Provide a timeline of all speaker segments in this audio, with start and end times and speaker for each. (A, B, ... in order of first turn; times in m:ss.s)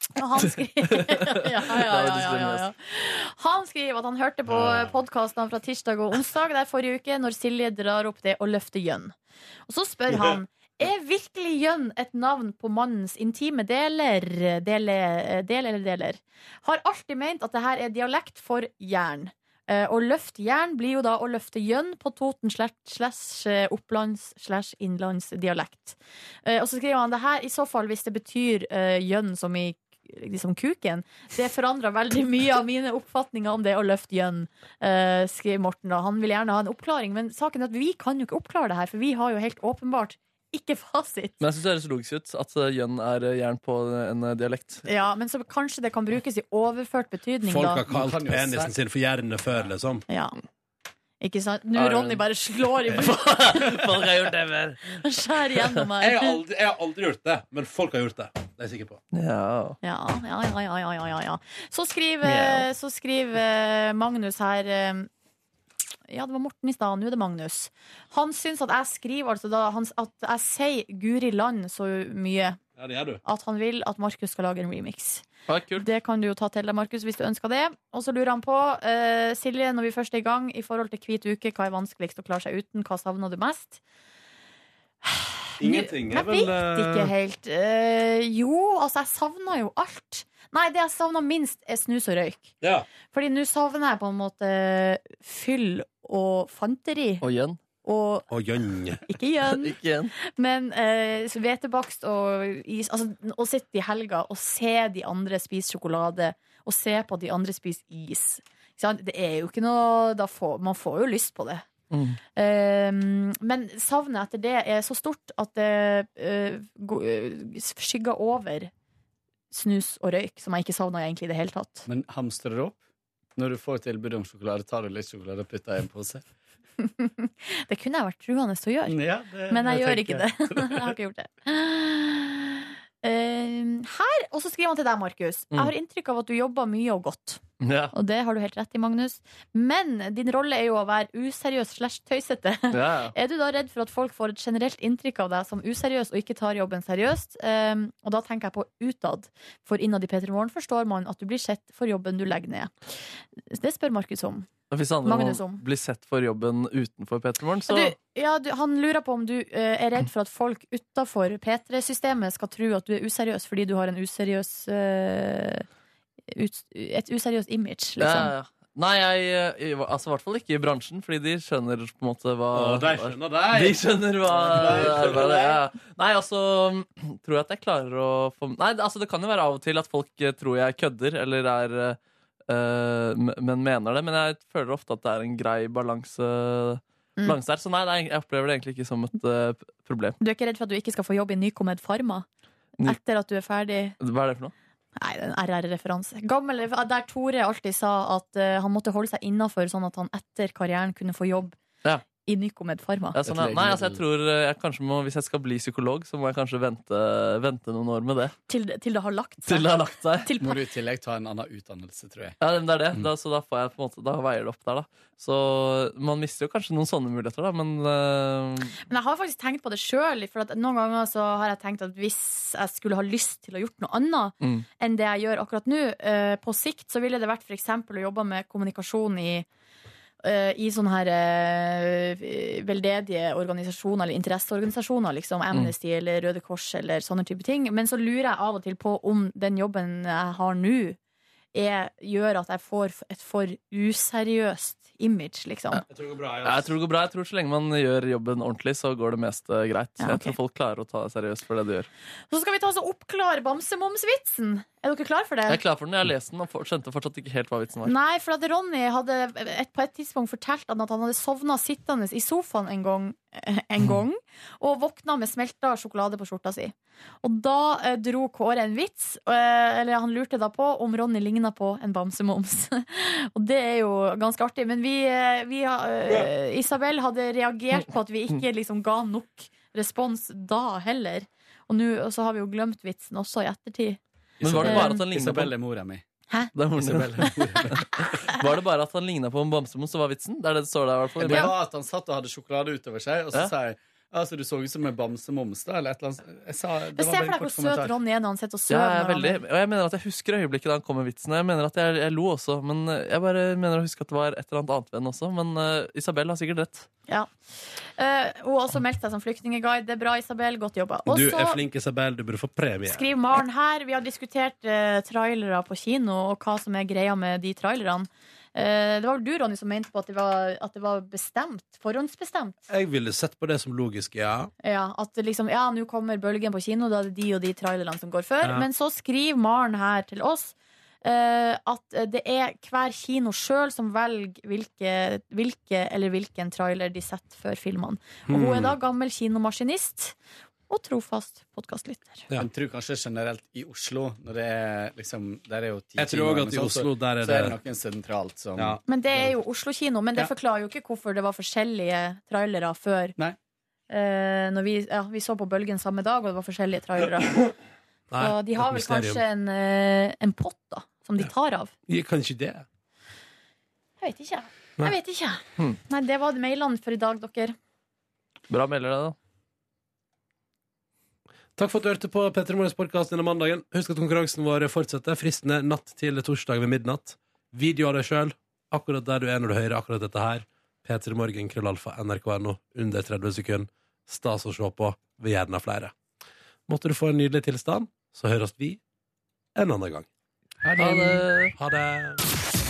0:00.1-0:09.1 A
0:01.0-0:02.7 B
0:04.5-0:04.9 C
0:09.7-0:41.4 A
0:41.4-0:44.8 B
0:44.8-0:47.8 A
0:47.4-0:50.0 C
0:47.9-0:48.8 D
0:50.1-0:50.4 A
0:51.2-0:53.8 A
0:51.7-0:52.2 B
0:52.8-0:55.0 B
0:54.9-0:56.4 A
0:56.0-0:59.0 C
0:59.1-0:59.8 B
0:59.8-1:05.1 A
1:02.2-1:02.6 B
1:06.1-1:12.6 A
1:12.8-1:13.2 C
1:13.2-1:15.2 A
1:15.5-1:15.9 B
1:15.8-1:23.8 A
1:25.0-1:32.6 A
1:25.6-1:27.1 C
1:32.6-1:32.9 C
1:33.1-1:37.2 A
1:37.2-1:37.6 B
1:37.8-1:38.3 A
1:38.3-1:39.0 C
1:39.0-1:51.7 A
1:39.5-1:40.1 B
1:51.9-1:52.2 B
1:52.4-1:58.7 A
1:59.5-2:01.8 A
2:01.8-2:02.8 D
2:03.4-2:06.2 D
2:06.8-2:32.7 A
2:08.8-2:10.9 D
2:17.6-2:17.9 B
2:22.7-2:23.1 B
2:33.4-2:34.5 A
2:34.7-2:37.9 B
2:35.0-2:35.6 A
2:37.7-2:45.6 A
2:46.3-2:48.3 A
2:48.0-3:10.2 B
2:52.5-2:55.6 C
2:54.3-2:55.6 D
3:10.2-3:12.3 A
3:12.8-3:14.0 A
3:14.0-3:14.5 B
3:15.0-3:21.6 A
3:22.2-3:23.2 A
3:23.1-3:28.3 B
3:23.2-3:24.0 D
3:28.5-3:30.6 A
3:29.4-3:30.3 B
3:30.4-3:32.4 D
3:32.4-3:38.8 B
3:38.9-3:49.4 A
3:44.4-3:44.6 B
3:50.2-4:01.0 A
4:01.5-4:05.8 A
4:05.9-4:06.7 C
4:06.4-4:11.9 B
4:10.0-4:10.4 A
4:12.3-4:15.6 A
4:15.5-4:17.9 B
4:17.8-4:44.0 A
4:44.4-4:45.5 B
4:44.4-4:46.0 D
4:44.6-4:45.0 A
4:46.5-4:51.5 B
4:46.7-4:48.0 D
4:51.2-4:58.0 D
4:51.3-4:51.5 A
4:56.9-4:59.4 A
4:58.7-5:06.9 B
5:07.8-5:11.6 A
5:11.1-5:13.0 C
5:12.8-5:22.6 A
5:22.7-5:24.5 C
5:24.6-5:40.2 A
5:38.3-5:38.7 C
5:40.7-5:42.3 A
5:42.3-5:48.8 D
5:46.0-5:47.6 C
5:48.6-5:49.3 C
5:48.9-5:53.1 A
5:53.9-5:57.5 A
5:58.1-5:59.2 C
5:58.2-6:01.7 A
6:01.9-6:02.6 C
6:04.0-6:07.5 A
6:08.5-6:09.2 B
6:11.6-6:25.9 C
6:26.7-6:28.8 C
6:29.6-6:30.1 C
6:30.6-6:31.0 D
6:30.7-6:32.2 C
6:30.8-6:31.5 B